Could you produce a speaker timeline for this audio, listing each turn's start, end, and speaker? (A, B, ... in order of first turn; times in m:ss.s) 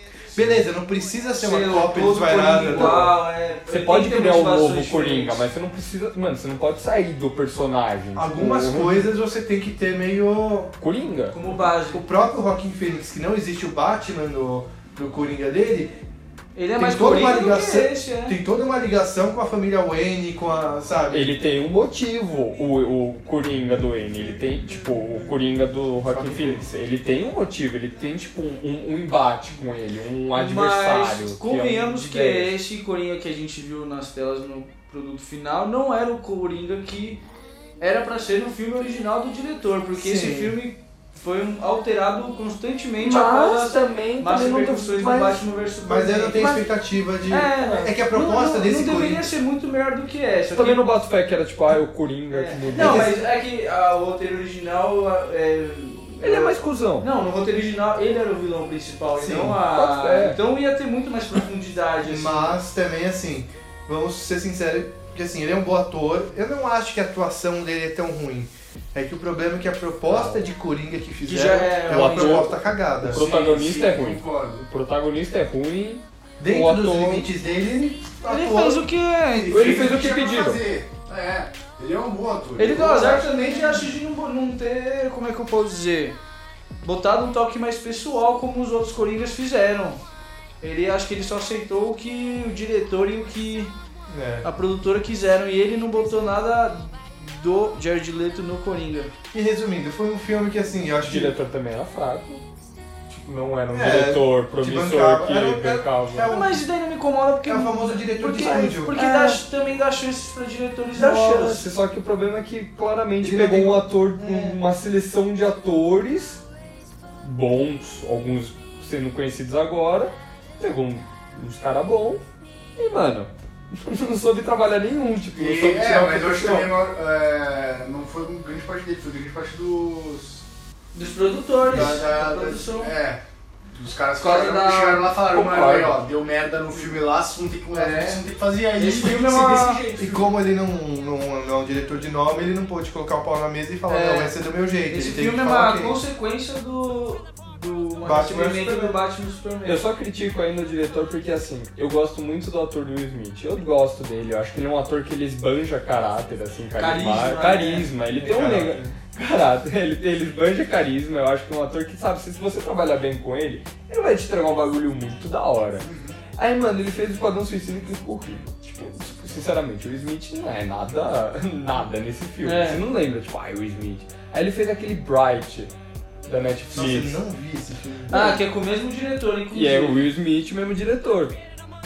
0:00.3-0:03.2 A
0:01.3-0:05.4 B
0:02.7-0:03.2 C
0:03.7-0:09.1 C
0:08.2-0:10.7 A
0:10.8-0:11.4 C
0:11.3-0:12.0 B
0:11.9-0:15.9 A
0:16.6-0:18.4 B
0:16.8-0:21.4 A
0:21.1-0:32.6 C
0:26.1-0:26.6 A
0:30.4-0:37.2 B
0:37.8-0:46.7 B
0:40.0-0:40.6 A
0:43.0-0:45.4 C
0:45.8-0:49.3 A
0:47.3-0:50.9 B
0:50.5-0:53.1 C
0:52.3-1:02.6 B
0:52.7-0:53.2 A
0:56.2-0:57.1 C
0:59.2-0:59.6 A
0:59.6-1:00.4 C
1:02.0-1:13.2 A
1:10.1-1:10.5 C
1:11.2-1:12.5 B
1:11.9-1:17.3 C
1:13.0-1:14.6 D
1:16.4-1:18.9 A
1:18.3-1:19.8 B
1:19.4-1:23.8 D
1:19.5-1:20.6 C
1:22.6-1:26.2 B
1:26.8-1:30.0 B
1:30.6-1:33.7 B
1:34.1-1:34.5 A
1:34.4-1:39.1 B
1:39.3-1:41.4 A
1:41.0-1:42.4 C
1:43.1-1:46.3 C
1:43.7-1:46.6 A
1:46.3-1:51.7 B
1:47.4-1:49.0 A
1:48.3-1:49.4 C
1:50.9-1:56.4 C
1:53.2-1:54.6 A
1:57.2-2:02.2 C
2:02.8-2:06.7 C
2:05.4-2:10.4 D
2:10.9-2:12.9 B
2:11.7-2:13.2 D
2:11.7-2:12.0 A
2:13.7-2:20.4 D
2:14.2-2:15.0 B
2:14.7-2:16.0 C
2:17.7-2:19.8 B
2:20.0-2:26.0 A
2:23.9-2:24.4 B
2:24.9-2:29.8 B
2:28.0-2:29.0 A
2:29.6-2:55.7 C
2:36.8-2:37.9 B
2:38.2-2:38.9 A
2:45.8-2:46.2 D
2:52.4-2:52.8 B
2:56.3-2:57.2 C
2:56.7-2:58.4 A
2:58.1-3:00.1 B
2:59.5-3:01.4 C